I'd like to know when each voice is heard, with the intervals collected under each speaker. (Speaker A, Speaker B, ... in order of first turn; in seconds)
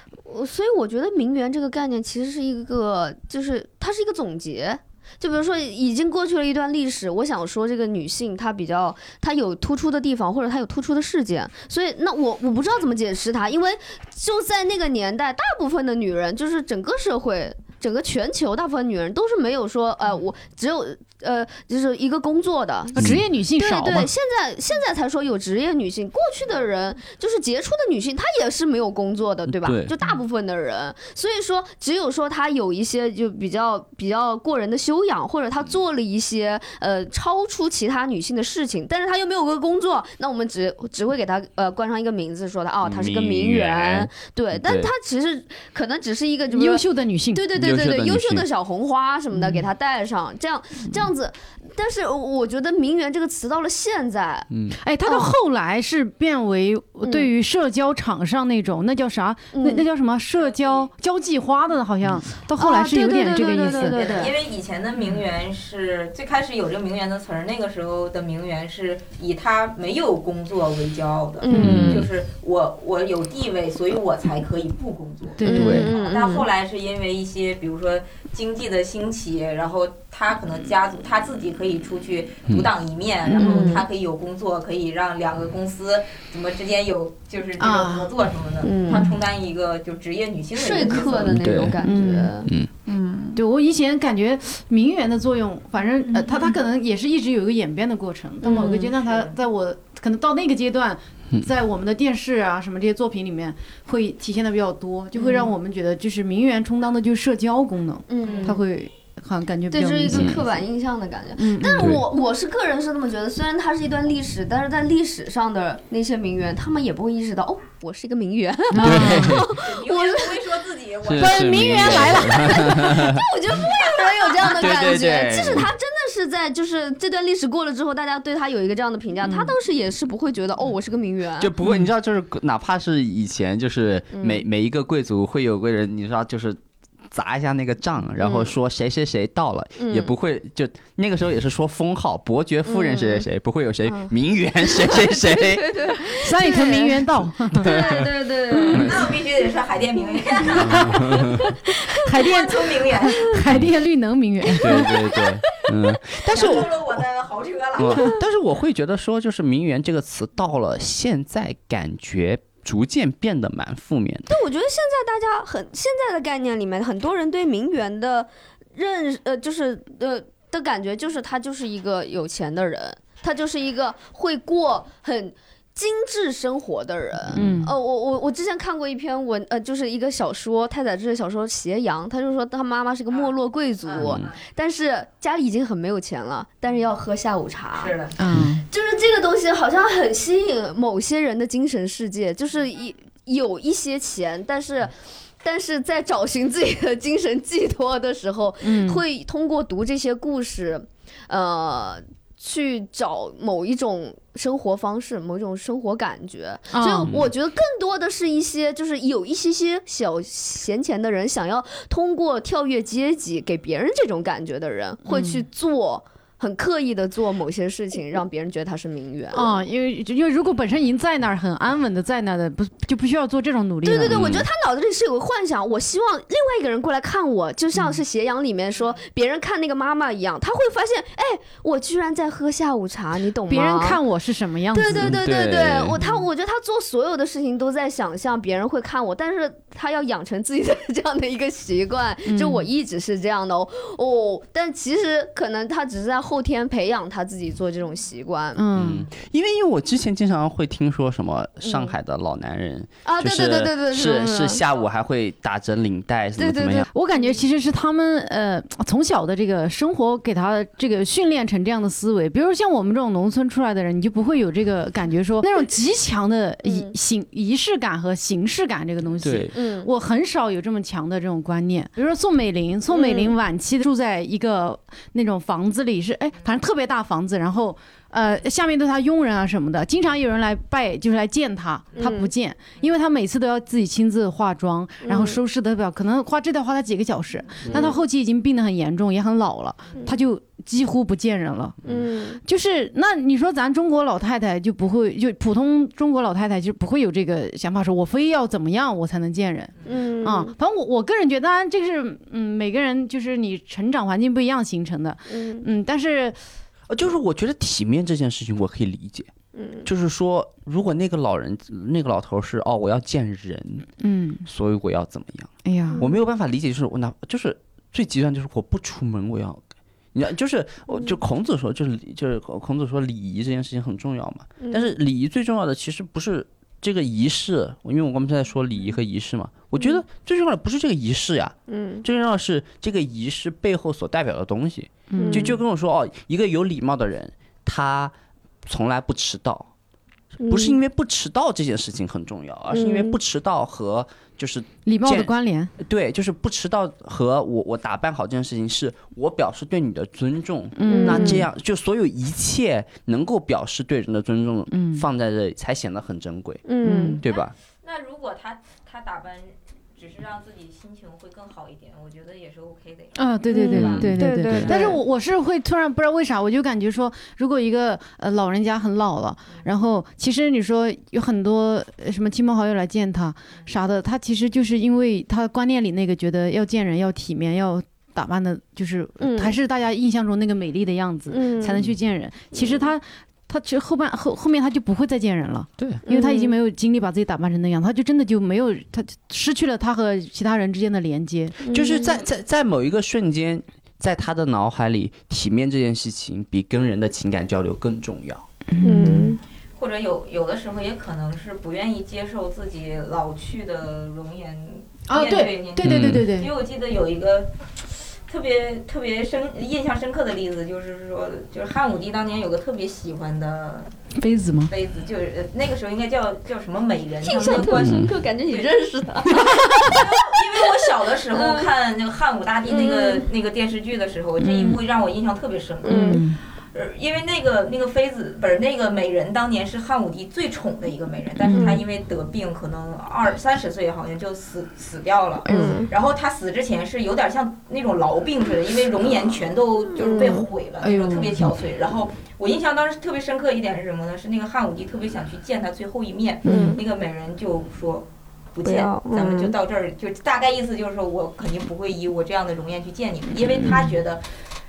Speaker A: 0.2-54.5, 55.0-55.3, 57.0-57.3, 59.5-59.8, 62.6-64.3, 71.4-71.9, 75.4-76.5, 83.4-83.8, 88.6-89.1, 90.5-93.4, 98.4-98.9, 105.1-105.5, 108.1-108.6, 109.7-120.4, 122.2-131.5, 134.1-134.4, 138.2-138.5, 139.8-140.1, 142.7-143.2, 143.8-144.1, 144.6-148.9, 150.1-150.7, 151.4-152.0, 154.8-155.2, 164.3-187.9, 188.7-194.9, 195.4-219.5, 223.8-234.0, 234.7-248.6, 251.6-251.9, 253.0-254.6, 256.4-256.9, 266.6-266.9, 269.5-269.9, 272.9-273.3, 282.0-282.3, 285.0-285.4, 287.7-288.0, 291.8-292.4, 299.8-300.5, 305.3-305.7, 309.5-309.9, 320.9-321.1, 324.6-324.9, 329.7-330.0, 331.7-332.0, 335.1-335.6, 340.4-340.8, 342.7-343.2, 350.9-351.5, 356.6-357.2, 363.5-365.0, 379.2-379.5, 381.3-381.8, 386.1-386.6, 391.6-392.2, 398.8-399.4, 417.2-421.7, 422.6-423.2, 425.8-426.2, 431.5-431.8, 435.4-435.9, 440.0-440.5, 446.4-446.8, 448.6-449.5
Speaker B: 22.9-24.1, 46.5-47.5, 49.3-49.6, 54.8-64.2, 71.5-72.0, 75.4-75.9, 83.3-83.7, 87.6-88.1, 91.8-92.3, 93.3-110.4, 111.4-112.0, 118.7-119.4, 121.2-122.9, 131.6-131.9, 146.1-147.7, 148.5-148.9, 150.5-151.0, 152.0-155.2, 177.3-177.7, 188.2-188.6, 198.6-199.0, 206.7-207.1, 215.1-215.4, 219.3-224.2, 233.5-235.2, 236.0-236.2, 242.2-242.7, 248.6-249.1, 256.9-291.8, 292.4-306.4, 314.0-314.4, 315.6-316.1, 335.1-335.5, 344.8-345.7, 350.8-351.4, 354.7-355.0, 356.8-357.2, 363.2-391.6, 398.7-399.4, 405.1-406.5, 414.2-414.7, 419.4-419.9, 424.4-424.8, 425.9-426.4, 431.4-431.8, 435.4-435.8, 440.8-441.5, 446.4-446.8, 453.6-454.0
Speaker C: 23.0-23.2, 29.5-29.9, 42.8-44.9, 47.5-48.5, 54.5-54.8, 71.5-72.1, 75.5-75.9, 91.3-91.8, 110.1-110.4, 111.8-112.0, 118.8-119.5, 121.0-123.7, 124.4-125.7, 131.4-136.6, 137.1-146.1, 147.5-148.1, 148.7-149.1, 150.5-151.4, 154.6-157.0, 157.8-164.3, 177.3-177.7, 184.0-184.3, 224.1-224.5, 234.9-236.0, 248.7-256.9, 269.2-269.5, 306.9-309.3, 309.8-313.9, 314.4-338.1, 338.6-339.7, 340.4-356.7, 357.2-357.5, 364.0-364.7, 391.7-398.4, 405.8-406.3, 417.8-418.1
Speaker D: 60.4-60.9, 63.6-91.4, 96.0-96.5, 99.0-99.3, 108.2-108.6, 119.4-122.3, 123.6-124.7, 148.7-151.3, 152.1-153.3, 156.2-158.2, 183.8-184.4, 187.8-188.2, 357.2-365.0, 399.8-413.9, 414.7-418.7, 419.8-454.2